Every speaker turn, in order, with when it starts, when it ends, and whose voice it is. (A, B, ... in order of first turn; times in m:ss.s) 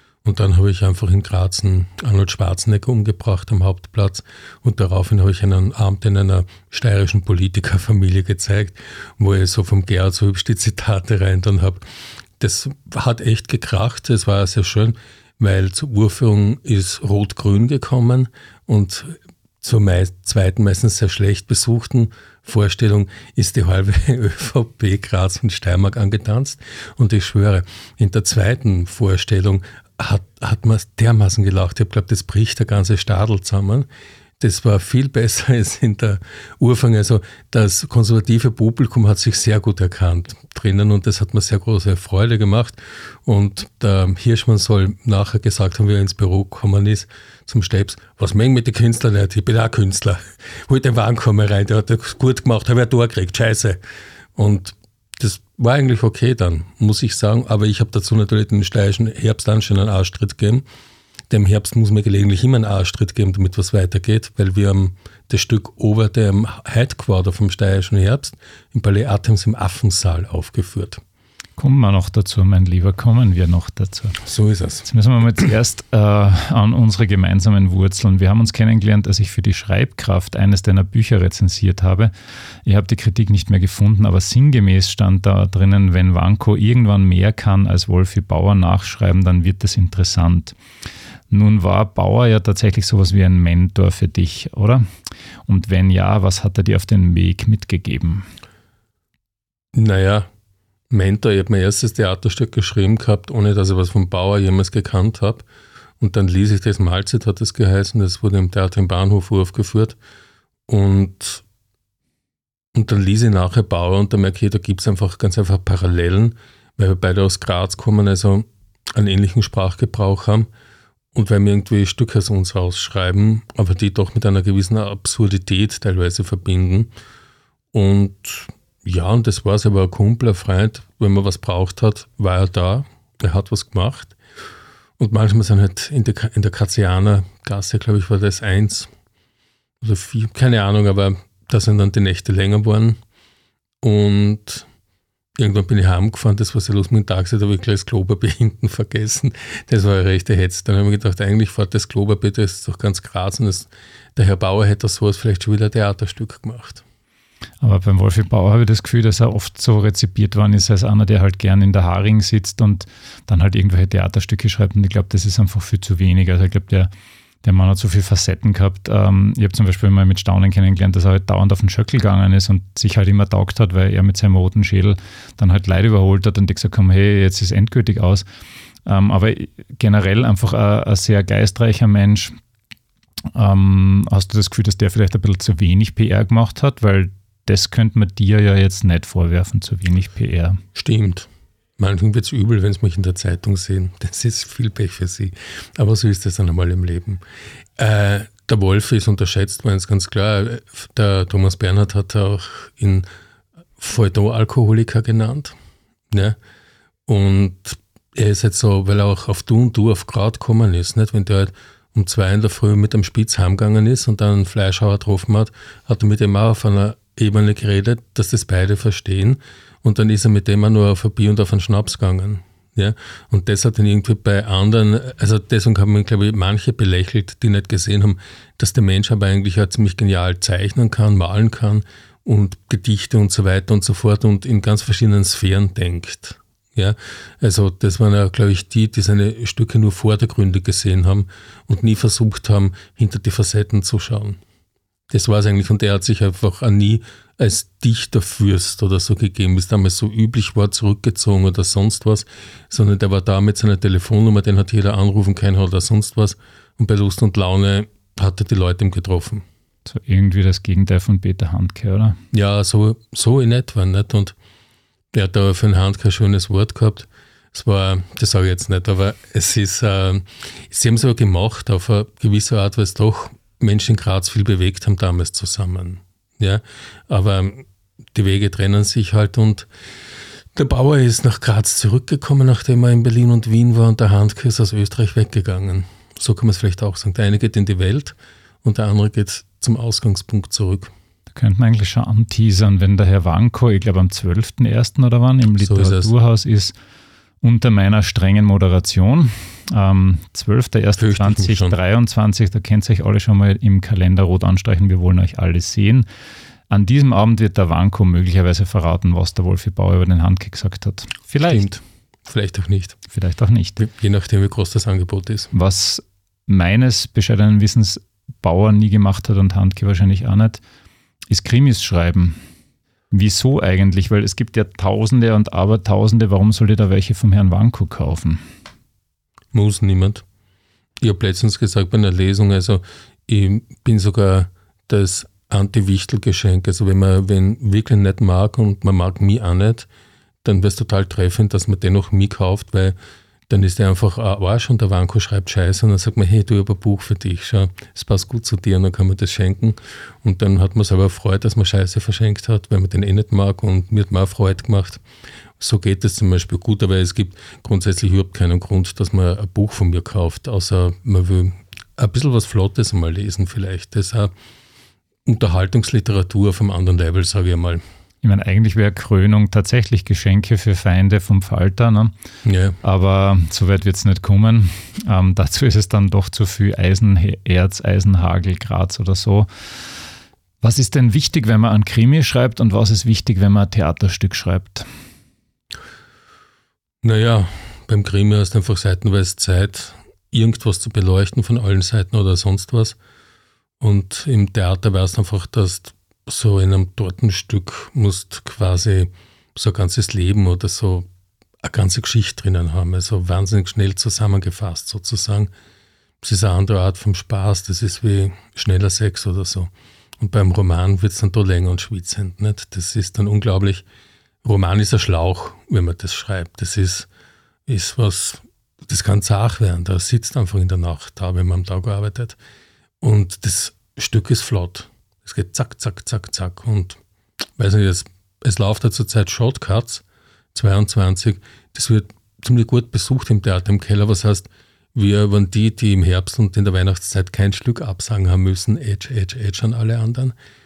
0:00.2-0:11.8 A
0:12.4-0:33.9 A
0:34.4-0:53.8 A
0:54.4-1:00.6 A
1:01.3-1:11.0 A
1:11.6-1:14.2 B
1:14.2-1:14.9 A
1:14.8-1:30.6 B
1:31.3-1:34.8 B
1:35.5-1:38.3 B
1:39.7-1:40.3 A
1:40.9-1:45.4 A
1:46.0-1:50.0 A
1:50.7-1:51.4 A
1:52.7-2:00.5 A
2:01.1-2:06.9 A
2:07.7-2:14.2 A
2:15.0-2:18.9 A
2:19.8-2:23.0 A
2:23.8-2:24.7 A
2:25.4-2:36.8 A
2:37.6-2:46.9 B
2:47.4-2:58.2 B
2:58.8-3:02.4 B
3:03.3-3:10.6 B
3:10.8-3:17.2 A
3:17.8-3:23.1 A
3:23.8-3:25.6 A
3:26.1-3:26.4 A
3:27.1-4:04.4 A
4:05.1-4:19.4 A
4:19.9-4:22.2 B
4:22.3-4:24.4 A
4:25.1-4:39.7 A
4:40.6-4:50.9 A
4:51.3-4:56.8 B
4:55.6-4:56.1 A
4:57.4-5:06.1 B
5:01.0-5:01.8 A
5:06.7-5:11.7 B
5:11.4-5:13.0 A
5:13.1-5:13.8 B
5:13.8-5:15.5 A
5:15.5-5:20.6 B
5:21.3-5:22.4 B
5:23.1-5:28.4 B
5:29.5-5:30.2 A
5:31.0-5:39.9 A
5:40.4-5:43.0 A
5:43.5-5:55.0 A
5:55.6-6:04.3 A
6:05.3-6:07.8 A
6:08.2-6:12.1 B
6:12.4-6:12.8 A
6:12.8-6:20.0 B
6:20.6-6:24.9 B
6:27.0-6:33.0 A
6:33.8-6:41.1 A
6:41.6-6:45.5 A
6:46.2-6:53.8 A
6:54.4-6:57.1 A
6:57.7-7:02.4 A
7:03.0-7:07.0 A
7:07.6-7:20.4 A